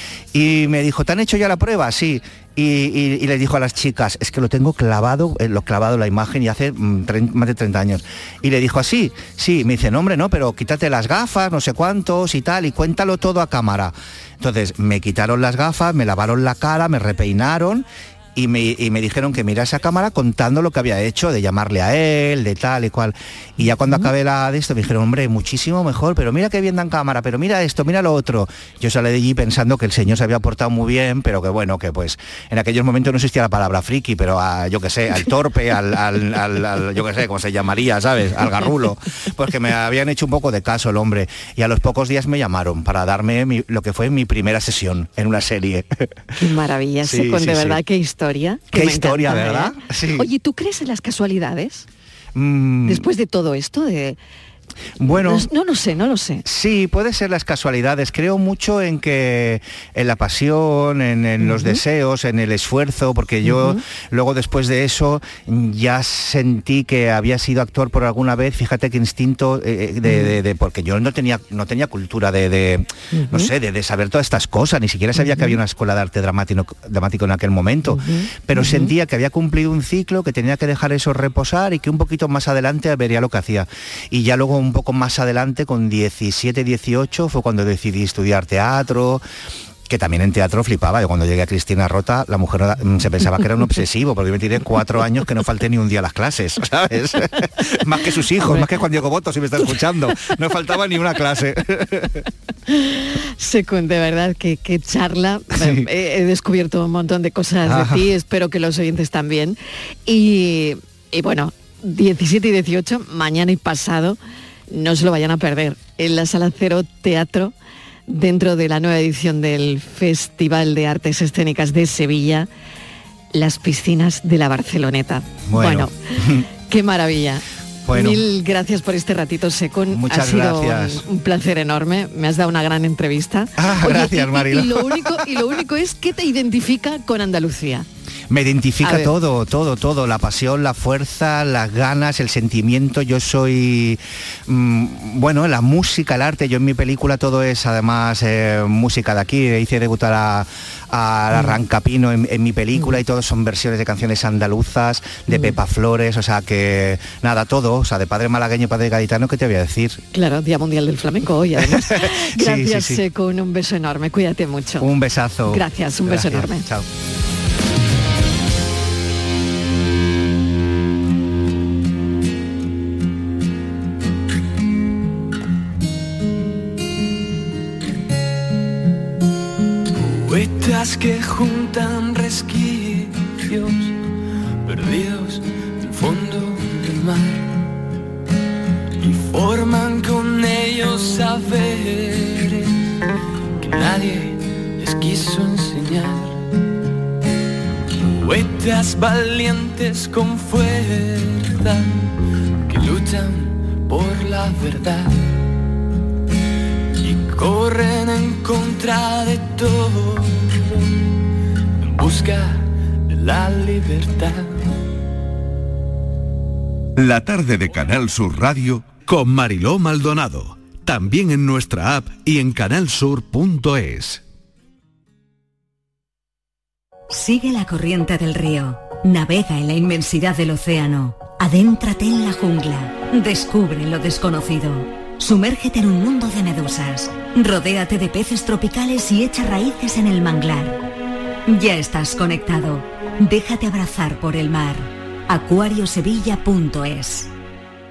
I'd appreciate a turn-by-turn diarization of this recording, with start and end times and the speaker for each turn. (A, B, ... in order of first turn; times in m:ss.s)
0:00.3-0:46.2 A
0:23.8-0:24.1 B
0:46.4-0:51.8 B
0:47.0-0:47.8 A
0:48.7-0:50.3 A
0:52.3-0:53.0 A
0:52.8-0:54.2 B
0:55.0-0:55.5 A
0:55.0-0:56.4 B
0:56.4-1:29.2 A
1:01.4-1:01.8 B
1:03.4-1:03.8 B
1:10.0-1:10.3 B
1:13.1-1:13.5 B
1:15.2-1:15.6 B
1:17.9-1:18.9 B
1:29.9-1:42.2 A
1:38.4-1:38.7 B
1:42.7-1:54.2 B
1:45.5-1:45.9 A
1:47.6-1:48.1 A
1:54.7-1:57.5 B
1:58.1-2:02.5 B
2:03.3-2:05.9 B
2:05.5-2:06.4 A
2:06.7-2:17.8 B
2:07.8-2:08.2 A
2:09.9-2:11.0 A
2:13.6-2:15.4 A
2:18.3-2:40.0 A
2:18.8-2:19.1 B
2:35.3-2:35.6 B
2:40.1-2:44.9 B
2:41.6-2:43.0 A
2:44.8-2:46.9 A
2:45.5-2:46.6 B
2:59.9-3:04.0 C
3:04.6-3:07.6 C
3:09.0-3:12.8 C
3:13.6-3:16.4 C
3:18.1-3:22.1 C
3:22.7-3:25.4 C
3:27.0-3:30.8 C
3:31.8-3:34.6 C
3:37.0-3:44.2 D
3:47.1-4:00.8 E
4:01.5-4:07.3 E